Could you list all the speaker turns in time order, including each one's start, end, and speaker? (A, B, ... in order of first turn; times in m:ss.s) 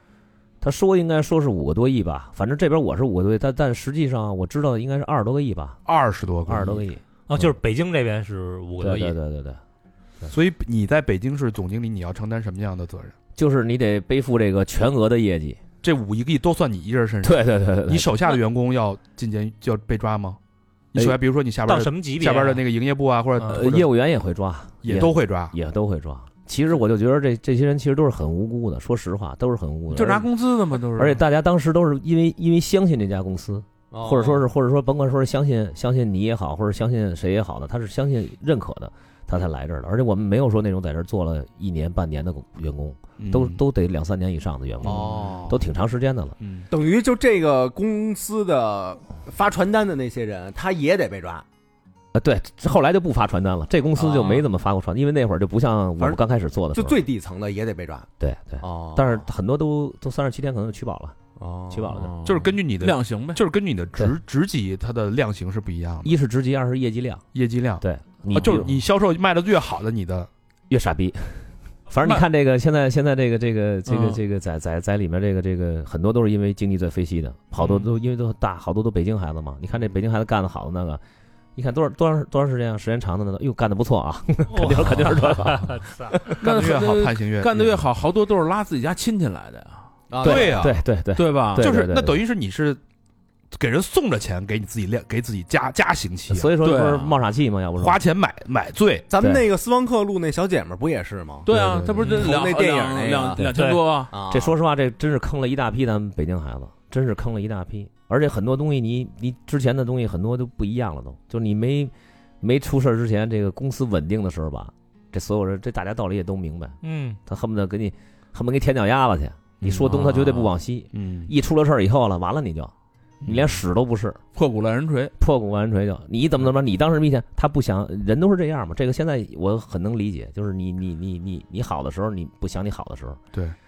0:00.6-0:05.8 A
0:05.8-0:06.9 B
0:06.4-0:07.5 A
0:07.3-0:09.2 C
0:08.8-0:09.6 A
0:10.3-0:13.1 B
0:13.4-0:15.6 A
0:15.8-0:20.4 B
0:17.2-0:18.1 A
0:20.9-0:23.9 B
0:21.6-0:22.6 C
0:23.4-0:30.3 A
0:24.8-0:25.5 B
0:29.9-0:31.2 D
0:30.9-0:46.3 A
0:33.9-0:34.4 E
0:43.2-0:43.6 B
0:44.8-0:45.6 E
0:44.8-0:45.5 B
0:46.4-0:46.7 B
0:46.7-0:51.4 E
0:52.1-0:57.0 A
0:54.0-0:54.4 E
0:56.7-0:58.1 E
0:58.2-1:01.1 A
0:58.6-0:59.2 E
1:01.4-1:02.1 E
1:01.7-1:02.1 A
1:02.0-1:03.4 D
1:02.2-1:06.2 B
1:06.0-1:07.2 A
1:07.3-1:10.3 B
1:07.8-1:08.7 A
1:10.7-1:21.0 A
1:13.9-1:14.2 D
1:21.6-1:26.4 A
1:24.5-1:26.2 C
1:26.4-1:29.9 D
1:26.4-1:27.8 B
1:30.1-1:30.7 E
1:30.2-1:30.8 B
1:30.2-1:32.2 A
1:31.1-1:31.6 D
1:31.6-1:32.8 B
1:33.5-1:36.5 B
1:36.3-1:38.0 A
1:36.6-1:37.2 D
1:37.8-1:39.1 B
1:39.1-1:41.5 E
1:39.2-1:39.5 A
1:41.4-1:44.1 D
1:41.5-1:42.2 B
1:42.0-1:43.5 E
1:43.5-1:43.8 C
1:44.1-1:44.5 E
1:44.3-2:02.7 A
1:56.8-1:57.2 C
1:59.6-2:00.2 B
1:59.9-2:00.4 D
2:00.9-2:01.3 B
2:03.2-2:03.5 B
2:03.2-2:04.2 A
2:04.3-2:05.1 D
2:05.2-2:13.2 A